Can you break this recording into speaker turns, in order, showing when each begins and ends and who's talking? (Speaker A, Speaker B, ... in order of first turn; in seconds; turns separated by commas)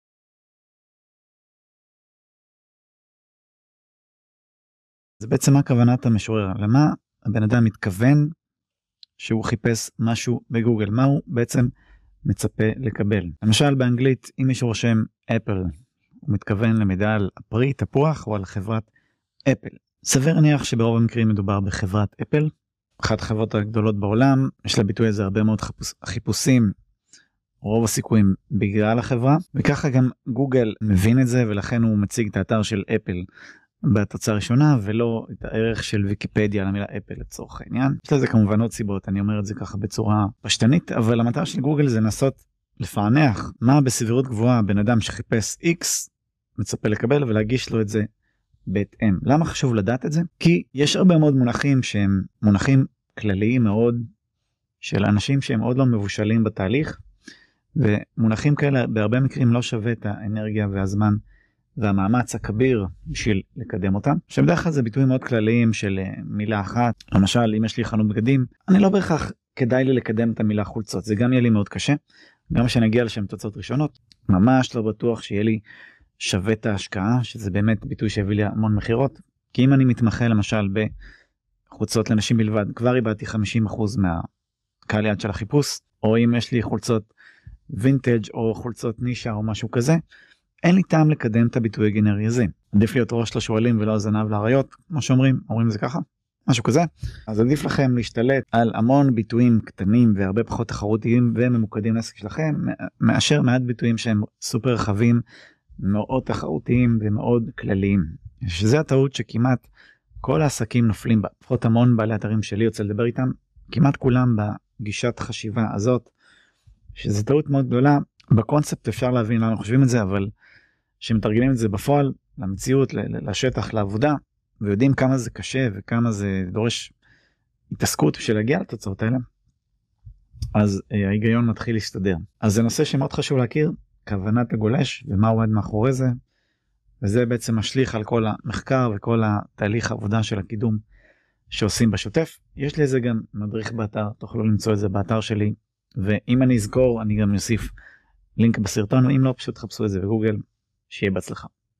Speaker A: 5.2-8.3, Speaker A: 9.2-11.7, Speaker A: 12.2-15.7, Speaker A: 16.2-18.9, Speaker A: 19.5-22.5, Speaker A: 23.0-26.7, Speaker A: 27.6-33.2, Speaker A: 33.9-48.0, Speaker A: 48.7-54.0, Speaker A: 54.8-57.0, Speaker A: 57.8-61.2, Speaker A: 61.8-72.0, Speaker A: 72.5-75.6, Speaker A: 76.2-80.9, Speaker A: 81.7-84.2, Speaker A: 84.9-87.1, Speaker A: 87.7-90.0, Speaker A: 90.6-105.2, Speaker A: 105.8-109.6, Speaker A: 110.2-116.1, Speaker A: 116.9-120.3, Speaker A: 121.0-126.9, Speaker A: 127.7-129.2, Speaker A: 130.5-136.1, Speaker A: 137.0-140.8, Speaker A: 141.5-147.7, Speaker A: 148.4-151.5